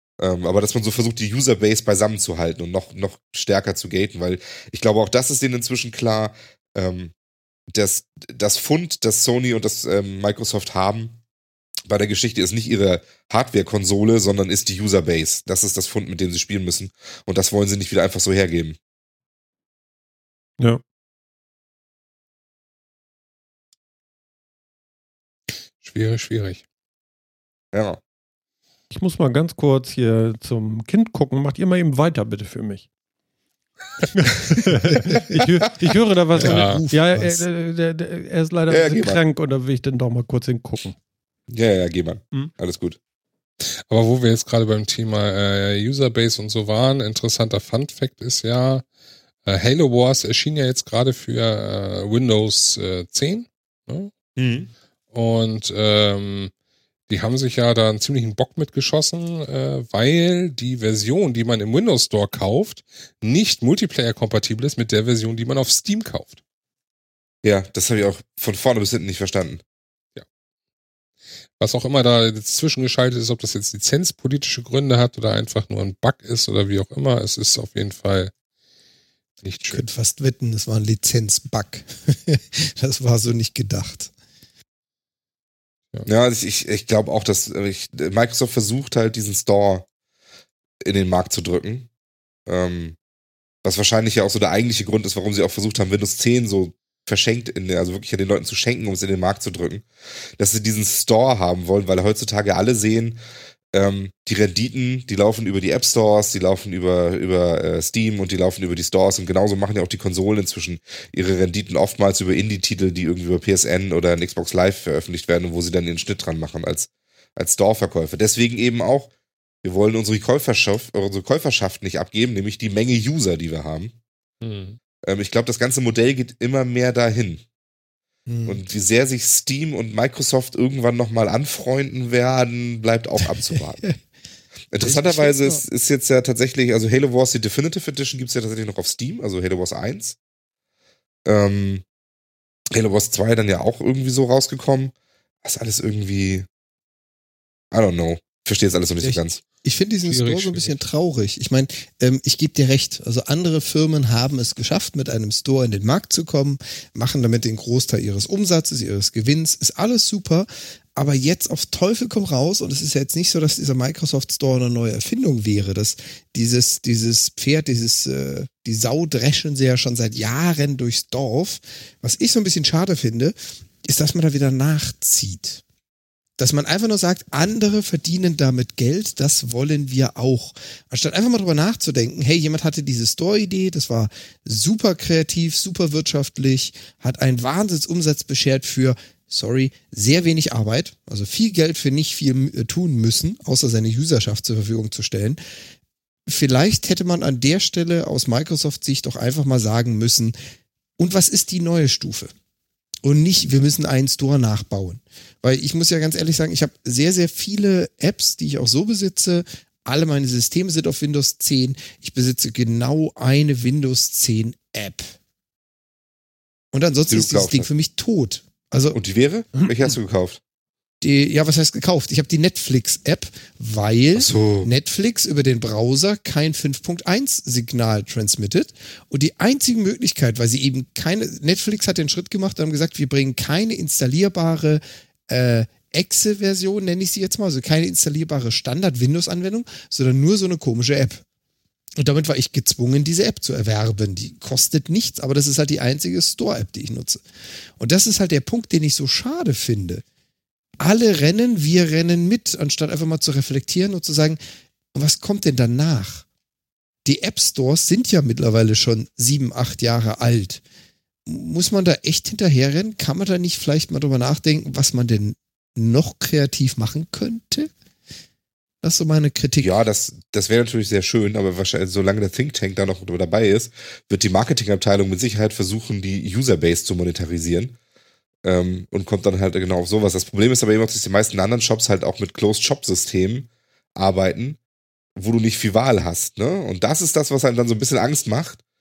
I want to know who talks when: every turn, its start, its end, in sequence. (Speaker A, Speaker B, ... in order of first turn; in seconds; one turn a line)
Speaker A: 0.2-7.1
Speaker A: 7.7-11.2
Speaker A: 11.9-18.8
Speaker B: 25.8-26.6
Speaker A: 27.7-28.0
Speaker C: 28.9-32.9
Speaker C: 34.1-41.0
Speaker D: 34.9-35.4
Speaker D: 36.4-37.4
Speaker B: 36.4-36.9
Speaker A: 38.7-39.2
Speaker A: 41.5-43.0
Speaker B: 43.9-48.8
Speaker B: 49.5-54.1
Speaker A: 54.4-54.7
Speaker B: 55.1-56.5
Speaker B: 57.1-66.4
Speaker A: 67.4-69.6
Speaker B: 71.6-78.3
Speaker B: 79.4-79.8
Speaker D: 79.7-84.1
Speaker A: 86.1-89.9
Speaker A: 90.8-91.9
Speaker A: 92.5-93.0
Speaker A: 93.6-99.9
Speaker A: 100.4-103.2
Speaker A: 103.7-119.1
Speaker A: 119.6-123.9
Speaker B: 124.4-124.8
Speaker A: 125.0-127.4
Speaker D: 128.3-128.6
Speaker A: 128.5-133.8
Speaker D: 133.2-134.0
Speaker A: 134.7-140.2
Speaker D: 134.8-135.6
Speaker A: 141.3-141.8
Speaker A: 142.7-146.5
Speaker A: 147.7-149.4
Speaker D: 149.0-175.6
Speaker B: 150.0-150.8
Speaker D: 176.4-195.4
Speaker D: 196.3-200.3
Speaker D: 201.0-202.3
Speaker D: 203.0-215.1
Speaker D: 216.7-219.0
Speaker A: 217.1-217.7
Speaker A: 218.9-220.4
Speaker D: 221.0-241.2
Speaker A: 224.2-224.7
Speaker D: 242.0-247.2
Speaker D: 247.8-250.0
Speaker D: 250.8-254.4
Speaker D: 254.9-256.3
Speaker D: 257.1-260.6
Speaker D: 261.3-267.7
Speaker D: 268.8-269.7
Speaker A: 269.6-277.8
Speaker A: 278.4-284.6
Speaker A: 285.2-288.6